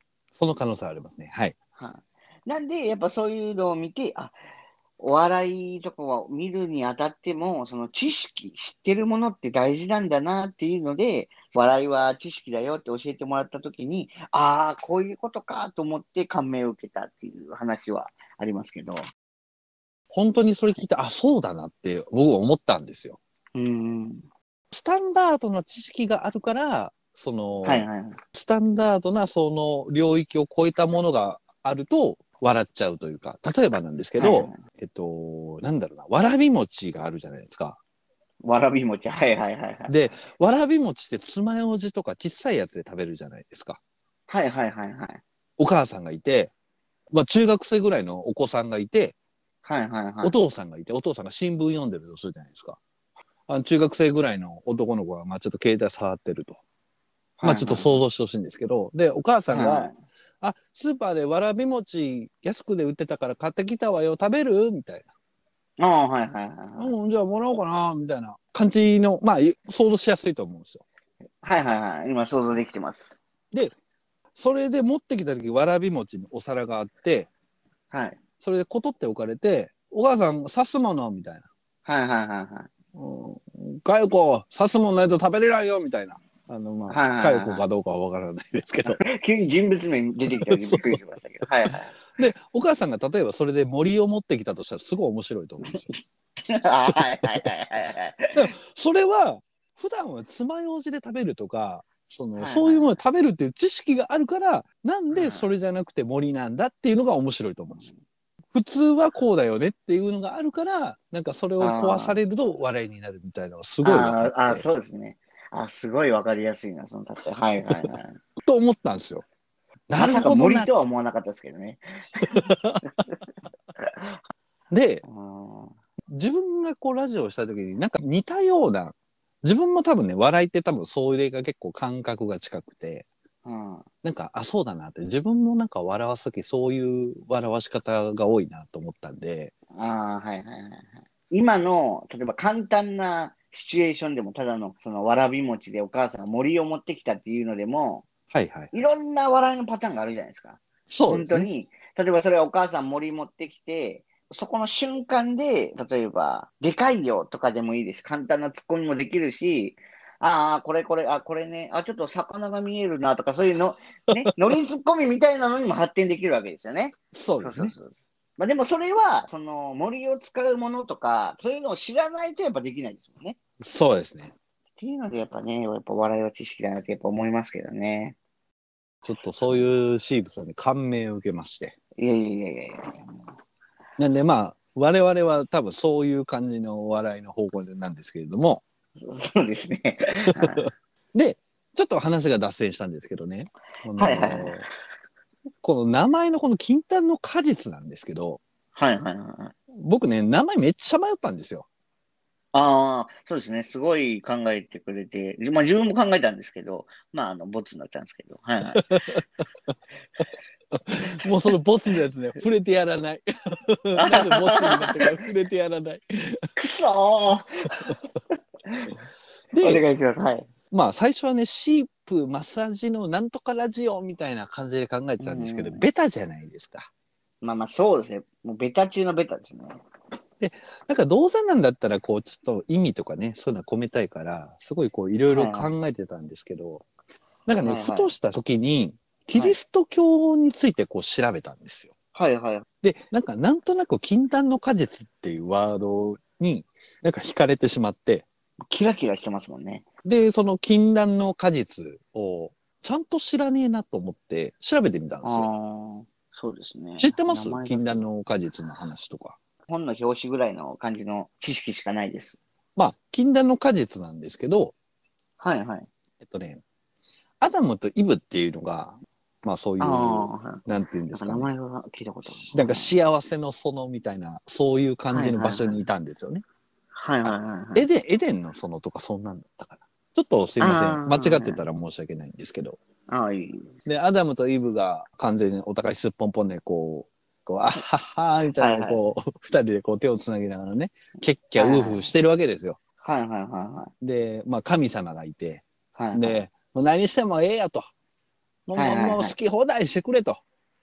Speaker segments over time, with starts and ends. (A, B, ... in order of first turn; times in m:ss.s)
0:00.4-0:01.6 A
0:01.8-0:04.4 B
0:05.0-0:19.0 B
0:20.1-0:23.2 A
0:23.6-0:24.3 B
0:24.7-0:37.8 A
0:27.6-0:28.2 B
0:34.2-0:34.6 B
0:38.4-0:40.0 B
0:39.9-0:43.8 A
0:44.3-0:45.2 B
0:45.6-0:46.5 A
0:47.1-0:49.1 A
0:49.6-0:50.3 B
0:50.2-0:52.8 A
0:53.5-0:56.6 A
0:57.4-0:58.0 B
0:57.4-1:05.1 A
0:59.5-1:00.0 B
1:05.8-1:06.9 B
1:06.8-1:10.8 A
1:11.4-1:13.2 B
1:14.4-1:17.3 A
1:17.9-1:18.2 B
1:18.4-1:21.5 A
1:21.8-1:22.7 B
1:23.0-1:29.0 A
1:26.9-1:27.6 B
1:28.8-1:31.9 B
1:30.4-1:31.0 A
1:31.7-1:35.9 A
1:36.5-1:38.5 B
1:38.4-1:47.9 A
1:42.4-1:42.9 B
1:45.1-1:45.5 B
1:48.5-1:54.6 A
1:51.6-1:52.2 B
1:53.8-1:58.2 B
1:58.4-1:59.2 A
1:59.9-2:00.7 A
2:00.0-2:02.4 B
2:02.2-2:02.8 A
2:03.8-2:04.2 B
2:04.7-2:05.0 A
2:05.0-2:05.8 B
2:06.1-2:13.0 A
2:13.4-2:13.9 B
2:14.0-2:19.5 A
2:19.8-2:28.1 B
2:28.3-2:28.7 A
2:28.7-2:53.4 B
2:30.9-2:31.5 A
2:47.1-2:47.8 A
2:53.6-2:54.3 A
2:54.8-2:58.2 B
2:59.0-3:01.8 A
3:02.0-3:03.1 B
3:04.0-3:08.6 A
3:09.0-3:10.7 B
3:10.4-3:14.6 A
3:14.0-3:14.7 B
3:15.6-3:18.4 A
3:18.8-3:19.5 B
3:19.7-3:21.7 A
3:22.5-3:29.2 B
3:28.8-3:29.2 A
3:30.8-3:36.5 A
3:34.0-3:35.2 B
3:36.6-3:38.0 B
3:38.7-3:38.9 B
3:39.5-3:39.8 A
3:39.6-3:40.5 B
3:40.7-3:46.9 A
3:45.2-3:45.8 B
3:47.4-3:49.8 B
3:50.4-3:56.8 A
3:55.3-3:55.7 B
3:57.5-4:01.9 A
3:57.6-3:58.1 B
4:02.1-4:02.7 B
4:02.8-4:08.3 A
4:08.7-4:09.8 B
4:10.0-4:15.5 A
4:15.2-4:18.0 B
4:17.0-4:19.4 A
4:19.7-4:22.4 B
4:22.8-4:24.7 A
4:25.4-4:25.9 B
4:26.2-4:26.6 A
4:27.4-4:31.5 A
4:29.8-4:33.0 B
4:32.3-4:36.4 A
4:35.1-4:35.8 B
4:36.9-4:37.9 B
4:37.2-4:42.8 A
4:40.6-4:41.6 B
4:43.1-4:43.7 B
4:43.9-4:52.8 A
4:48.6-4:49.0 B
4:51.6-4:52.1 B
4:53.0-4:53.9 B
4:54.0-4:57.9 A
4:56.0-4:56.4 B
4:58.7-5:00.4 A
4:58.8-4:59.4 B